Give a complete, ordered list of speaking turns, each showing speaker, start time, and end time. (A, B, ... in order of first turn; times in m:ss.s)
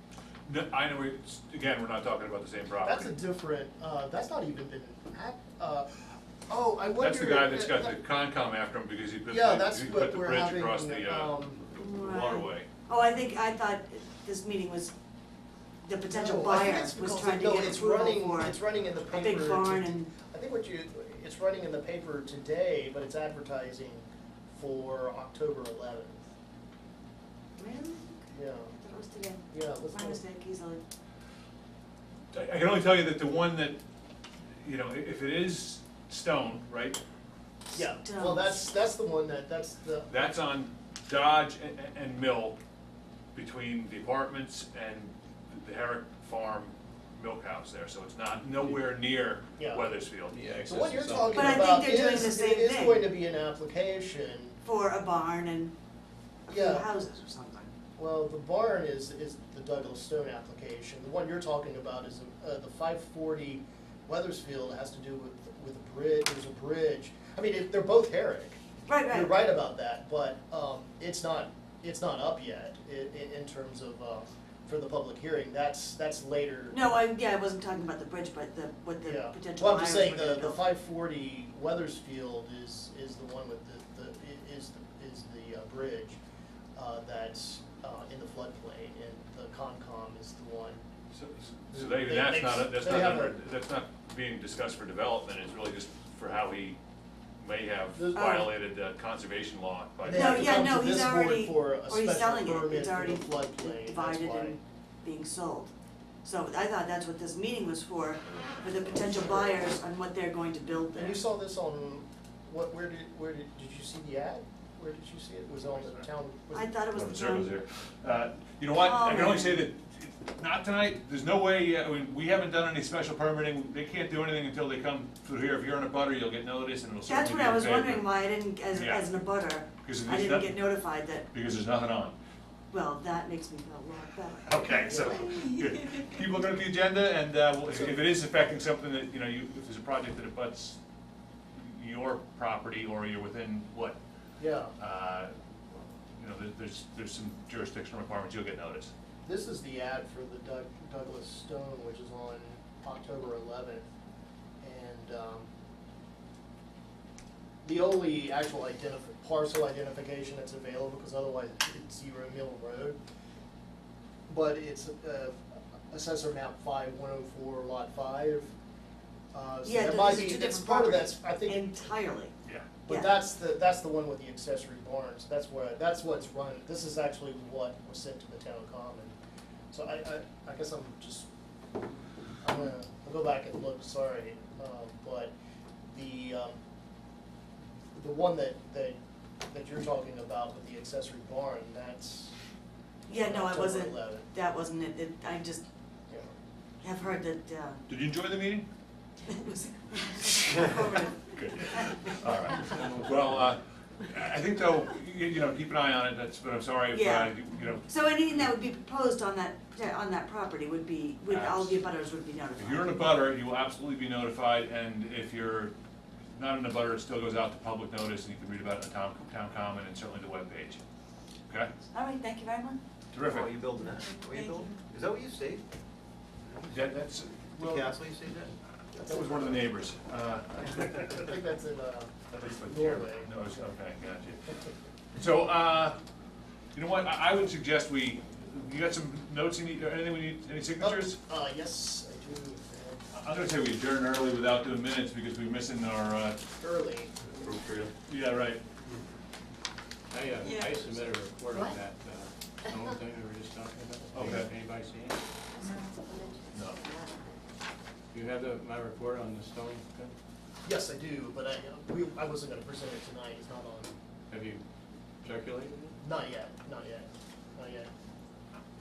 0:00.5-0:03.1 A
0:02.8-0:07.9 B
0:07.0-0:12.7 A
0:09.3-0:11.6 B
0:11.7-0:14.9 C
0:15.8-0:20.1 C
0:16.1-0:26.2 B
0:27.6-0:30.8 C
0:28.3-0:28.8 B
0:29.5-0:30.2 B
0:32.3-0:33.8 A
0:34.6-0:37.0 A
0:37.7-0:38.7 C
0:37.7-0:40.1 B
0:40.1-0:42.6 A
0:43.4-0:50.4 A
0:49.6-0:49.9 B
0:50.3-0:51.8 D
0:50.7-0:54.6 B
0:51.3-0:53.1 C
0:54.6-0:55.7 C
0:56.5-0:57.7 C
0:56.5-0:56.9 B
0:58.0-1:08.6 B
1:08.9-1:09.4 C
1:09.1-1:16.8 B
1:16.7-1:20.7 C
1:19.0-1:26.2 B
1:26.8-1:30.8 B
1:31.1-1:36.8 A
1:31.7-1:33.4 B
1:37.4-1:40.6 A
1:38.0-1:38.3 B
1:38.1-1:38.5 C
1:40.0-1:44.6 B
1:40.1-1:45.7 C
1:46.2-1:51.2 C
1:51.0-1:56.7 B
1:56.5-1:57.5 C
1:56.9-2:08.1 A
1:58.8-1:59.7 C
2:07.1-2:11.3 C
2:08.7-2:09.0 A
2:09.8-2:10.7 A
2:11.3-2:12.2 A
2:12.7-2:16.2 C
2:14.5-2:20.8 A
2:17.7-2:18.0 B
2:21.5-2:24.0 A
2:24.4-2:24.7 B
2:24.8-2:25.3 A
2:26.2-2:28.9 A
2:29.2-2:33.8 B
2:34.6-2:35.5 B
2:37.6-2:43.0 B
2:44.3-2:45.4 B
2:45.9-2:48.5 B
2:49.3-2:51.8 B
2:49.6-2:52.3 C
2:52.9-2:59.2 B
2:52.9-2:53.2 C
2:59.7-3:01.3 B
3:02.4-3:05.3 B
3:05.9-3:06.6 B
3:08.0-3:12.3 B
3:13.1-3:15.6 C
3:13.1-3:14.3 B
3:16.8-3:17.8 C
3:17.9-3:18.7 A
3:19.3-3:22.0 C
3:21.3-3:27.8 A
3:26.9-3:33.1 C
3:31.3-3:31.8 A
3:32.6-3:35.7 A
3:36.3-3:40.8 A
3:41.9-3:42.8 C
3:43.1-3:43.6 A
3:43.2-3:45.6 E
3:44.2-3:44.7 C
3:46.5-3:46.8 E
3:46.7-3:47.9 A
3:47.6-3:48.6 E
3:49.0-3:51.1 A
3:49.1-3:49.5 B
3:50.6-3:53.3 B
3:52.3-3:54.4 A
3:55.2-3:56.0 A
3:56.8-4:01.2 A
4:00.8-4:03.0 B
4:03.1-4:06.4 A
4:06.6-4:07.1 B
4:07.4-4:07.9 E
4:08.0-4:08.6 A
4:10.1-4:15.2 D
4:10.4-4:10.8 C
4:14.1-4:14.5 A
4:15.6-4:15.9 C
4:16.5-4:16.8 A
4:18.1-4:20.1 D
4:20.6-4:24.0 B
4:24.3-4:24.6 D
4:25.2-4:26.0 D
4:26.0-4:27.9 B